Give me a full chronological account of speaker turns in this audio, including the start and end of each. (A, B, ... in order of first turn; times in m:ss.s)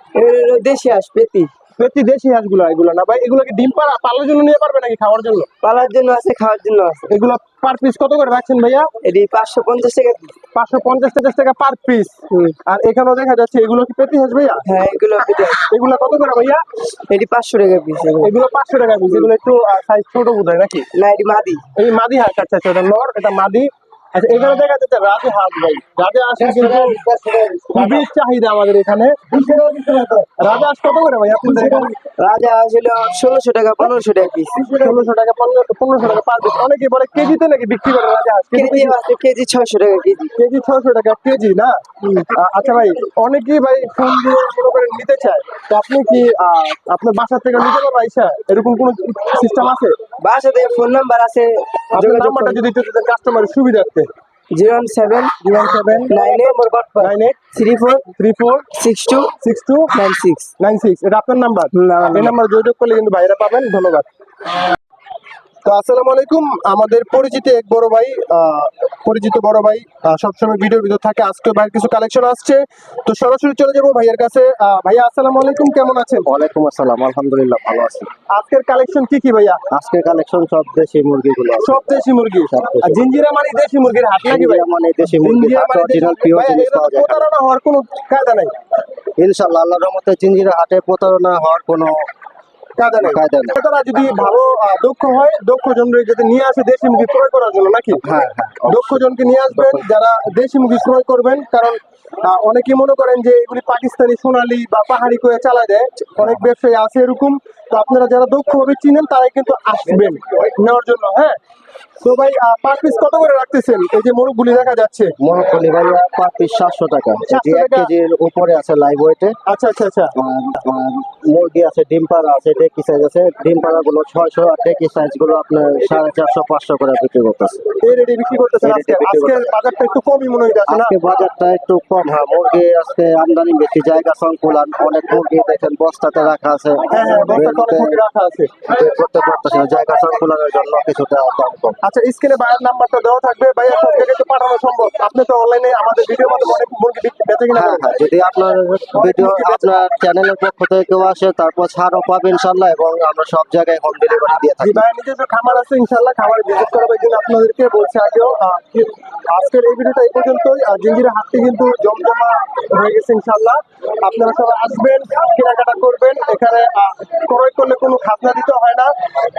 0:00.1-0:01.5 A
0:01.8-0:05.5 B
0:05.6-0:07.1 A
0:07.1-0:08.9 B
0:09.0-0:10.3 A
0:10.5-0:14.6 B
0:12.3-0:12.6 A
0:14.6-0:15.6 A
0:15.7-0:16.6 B
0:17.1-0:18.3 A
0:18.2-0:20.9 B
0:20.9-0:21.6 A
0:21.7-0:27.0 B
0:27.7-0:29.4 B
0:30.3-0:31.9 B
0:31.6-0:34.6 A
0:34.8-0:39.0 B
0:38.5-0:40.3 A
0:40.4-0:41.8 B
0:42.3-0:50.0 B
0:50.2-0:52.6 A
0:51.9-0:54.1 B
0:54.5-0:55.3 A
0:55.4-0:57.4 B
0:56.1-0:58.1 A
0:58.1-0:58.7 B
0:58.8-0:59.3 A
0:59.4-0:59.9 B
0:59.9-1:00.5 A
1:00.6-1:04.0 B
1:01.7-1:02.3 A
1:05.6-1:16.3 B
1:16.2-1:18.1 C
1:18.3-1:19.6 B
1:19.7-1:23.0 C
1:21.6-1:28.5 B
1:24.2-1:27.3 C
1:29.2-1:32.0 C
1:32.8-1:38.0 B
1:33.0-1:33.6 C
1:38.0-1:39.8 C
1:38.7-1:51.4 B
1:52.0-1:55.1 B
1:55.2-1:59.4 C
1:57.3-1:57.9 B
1:59.5-2:00.1 B
2:00.2-2:07.6 C
2:07.8-2:10.9 B
2:08.6-2:09.5 C
2:10.7-2:18.0 C
2:16.9-2:18.6 B
2:18.7-2:21.8 C
2:21.8-2:27.9 B
2:27.5-2:34.8 C
2:28.9-2:29.8 B
2:34.6-2:48.9 B